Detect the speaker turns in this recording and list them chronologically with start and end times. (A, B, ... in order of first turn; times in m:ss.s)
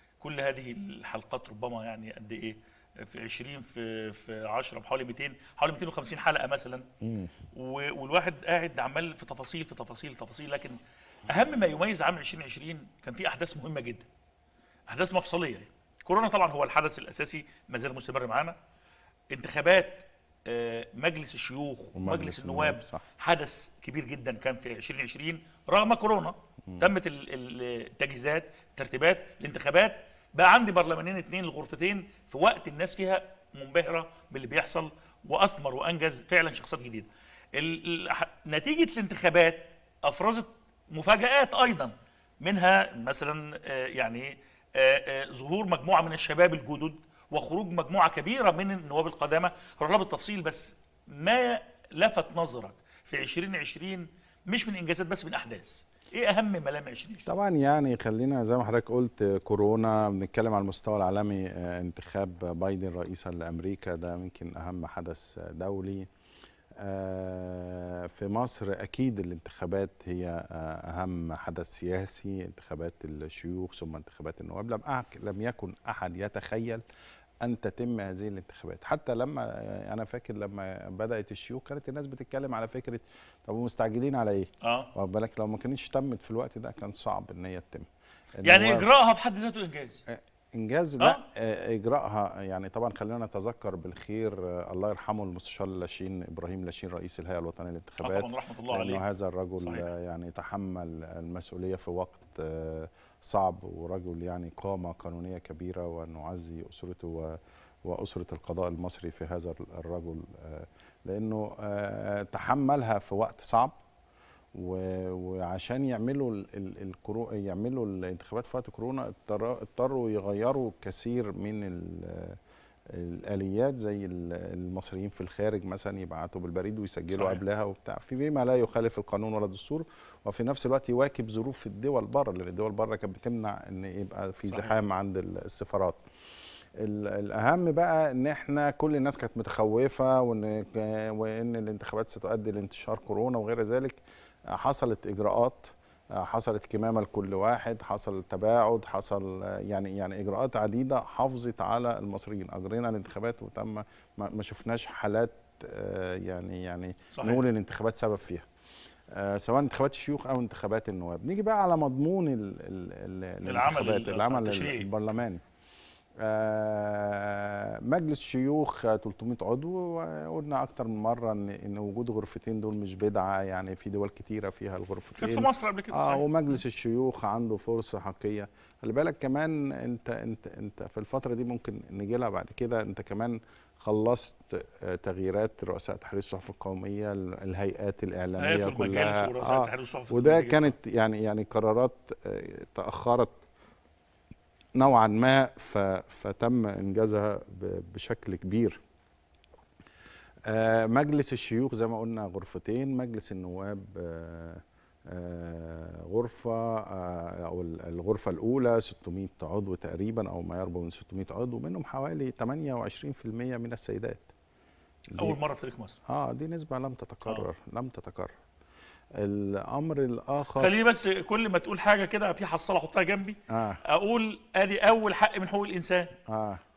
0:00.2-0:06.9 A
0:07.5-0:14.1 A
0:14.9-0:18.6 A
0:19.3-0:57.3 A
0:22.0-0:23.0 B
0:57.3-1:06.1 B
1:06.8-1:16.8 B
1:17.4-1:28.9 B
1:24.6-1:24.9 A
1:28.4-1:30.0 A
1:30.1-1:53.8 B
1:38.0-1:39.0 A
1:39.6-1:39.9 A
1:54.5-2:02.4 B
2:02.9-2:16.0 B
2:07.1-2:07.4 A
2:14.5-2:14.8 A
2:16.8-2:24.0 B
2:24.5-2:38.5 B
2:37.1-2:37.4 A
2:39.1-2:45.4 B
2:43.4-2:44.9 A
2:46.2-3:13.4 B
2:55.2-2:56.3 A
3:08.4-3:10.8 A
3:14.8-3:18.8 B
3:20.5-3:34.3 B
3:35.1-3:35.4 B
3:35.2-3:36.0 A
3:36.1-3:38.3 B
3:39.2-3:40.7 B
3:40.6-3:46.1 A
3:43.5-3:43.8 B
3:46.3-3:46.6 B